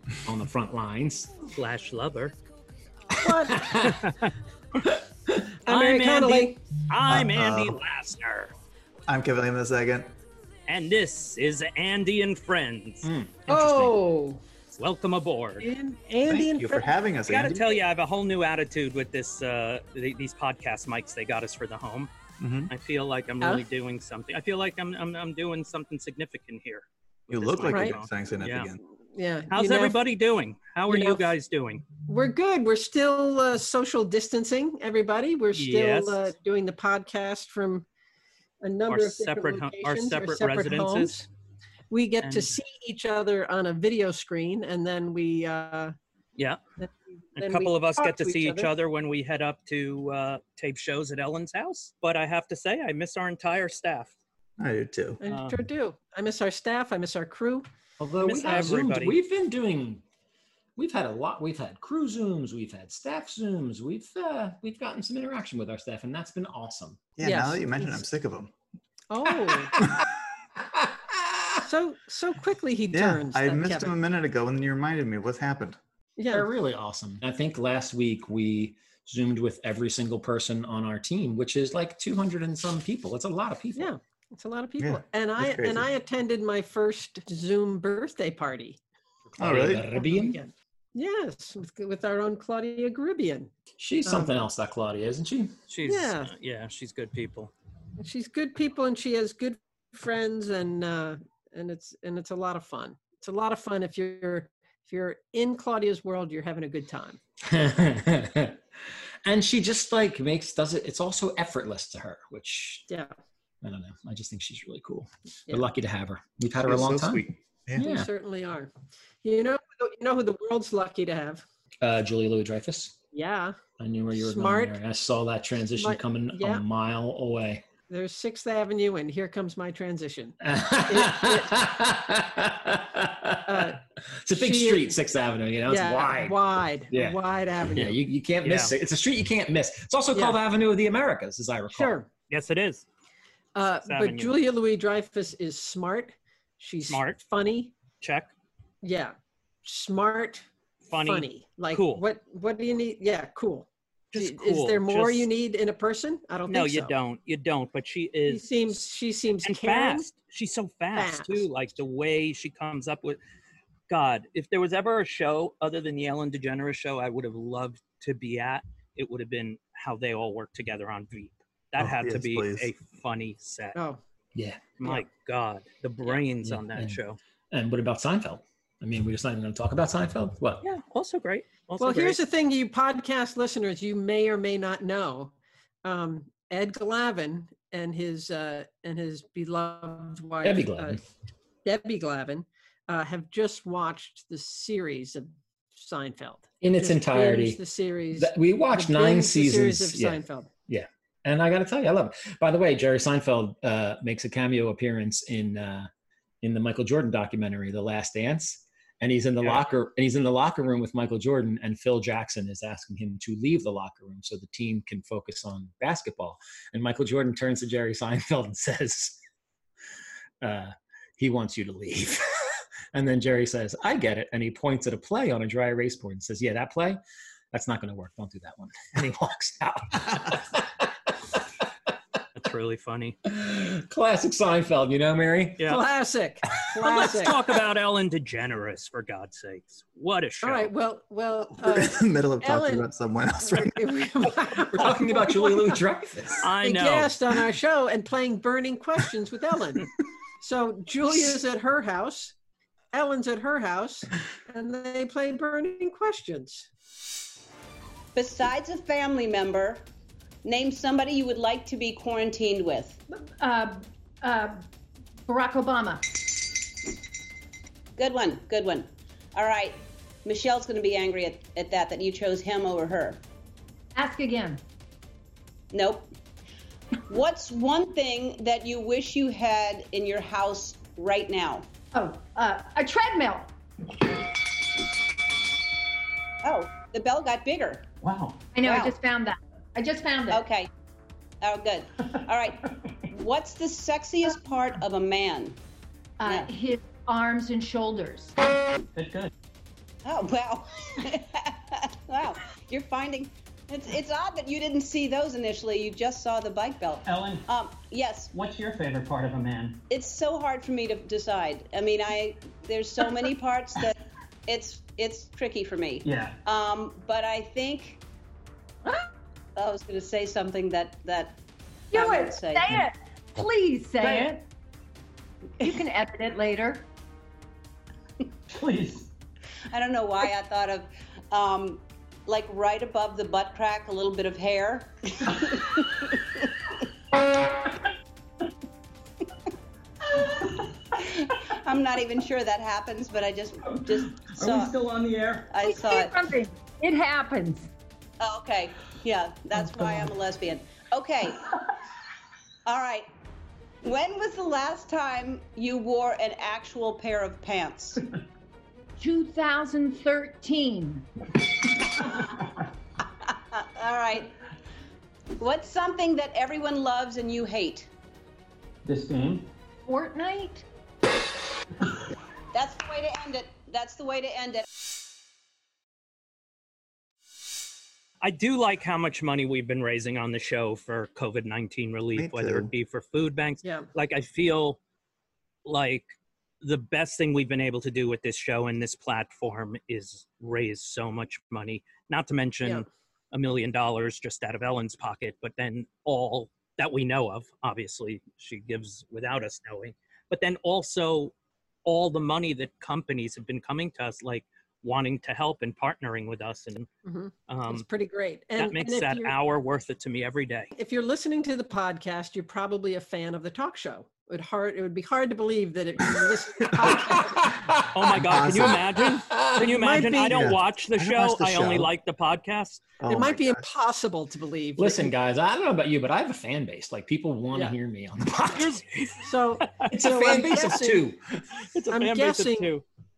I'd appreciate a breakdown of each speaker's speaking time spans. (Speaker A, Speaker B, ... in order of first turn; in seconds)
Speaker A: 0.2-1.4, 3.1-4.1, 4.9-5.3, 13.0-14.1, 58.0-60.0, 60.8-67.0, 69.6-70.0, 70.7-71.6, 76.3-83.9, 89.4-90.4, 93.8-95.6, 107.4-108.6, 109.2-112.9, 113.6-117.2, 117.8-118.1, 121.8-123.0, 123.8-127.7, 130.4-141.9, 174.3-174.7, 176.4-177.0, 177.5-180.6, 190.4-191.0, 196.6-197.6, 198.1-205.9, 206.4-219.2, 220.4-227.0, 227.5-231.4, 233.2-235.7, 244.7-246.5, 416.8-417.9, 418.9-419.6, 424.8-428.8, 429.9-431.5
Speaker B: 1.5-2.4, 3.8-4.3, 5.7-8.5, 10.7-13.1, 14.7-15.7, 17.3-22.1, 22.7-28.7, 29.5-31.8, 35.5-36.2, 38.9-41.1, 42.2-42.5, 47.4-54.1, 55.3-55.5, 58.3-59.2, 95.7-97.5, 138.4-138.7, 142.3-142.8, 143.8-144.3, 146.9-147.2, 148.0-148.3, 150.9-152.0, 154.1-155.3, 156.5-158.6, 159.4-163.2, 163.9-173.8, 174.8-177.2, 180.6-182.2, 232.3-233.2, 236.8-240.7, 246.4-247.1, 288.0-288.4, 298.9-299.3, 307.1-307.4, 308.3-309.8, 316.0-316.4, 328.5-329.1, 344.2-345.5, 368.9-369.5, 378.2-384.8, 385.6-401.3, 401.9-406.9, 407.5-407.9, 408.6-410.7, 417.9-422.8, 428.5-429.3, 431.7-432.8
Speaker C: 3.1-3.7, 5.6-6.6, 13.5-14.4, 15.6-16.9, 27.7-27.9, 29.1-30.0, 30.9-31.2, 32.1-37.9, 38.6-41.3, 41.9-45.9, 46.8-48.7, 55.2-57.6, 58.2-58.7, 67.2-68.0, 69.1-69.8, 71.6-73.9, 76.2-76.5, 83.8-88.8, 89.9-93.5, 94.0-94.3, 95.8-96.3, 98.0-107.2, 117.7-118.7, 119.2-121.4, 123.1-123.6, 124.1-124.8, 125.8-126.6, 127.9-131.6, 133.4-133.8, 134.3-134.9, 135.7-138.0, 140.1-140.4, 141.7-142.1, 143.5-147.7, 148.8-150.4, 151.0-156.9, 158.3-160.1, 160.9-161.5, 181.8-191.0, 191.6-200.5, 235.6-237.4, 240.4-242.8, 243.4-245.8, 246.6-249.9, 250.4-252.3, 252.9-256.7, 407.0-409.4, 410.7-417.4, 419.6-420.5, 423.1-425.1, 429.2-431.1, 431.9-432.7
Speaker D: 7.0-7.8, 9.1-10.1, 16.3-17.8, 22.4-22.7, 27.3-28.8, 54.6-55.2, 67.2-68.5, 72.9-75.8, 84.8-85.9, 89.4-89.9, 116.6-117.8, 171.8-172.7, 241.6-243.8, 382.1-382.7, 418.2-418.9, 420.3-421.9, 423.0-423.6
Speaker E: 258.1-259.8, 260.4-263.0, 268.0-273.2, 275.7-276.1, 277.1-281.7, 286.4-287.8, 288.6-288.9, 290.3-290.7, 291.4-295.6, 296.2-296.5, 300.0-308.3, 309.9-318.0, 319.6-321.4, 321.9-322.9, 329.7-336.5, 340.9-344.8, 345.5-346.2, 348.2-351.4, 352.6-353.1, 353.8-358.0, 363.2-364.3, 365.4-367.9, 372.5-374.6
Speaker F: 263.1-264.6, 265.2-266.1, 273.9-274.6, 281.9-283.5, 288.5-290.4, 296.2-298.3, 321.9-324.4, 325.6-326.8, 345.6-347.7, 359.0-361.1, 369.9-370.6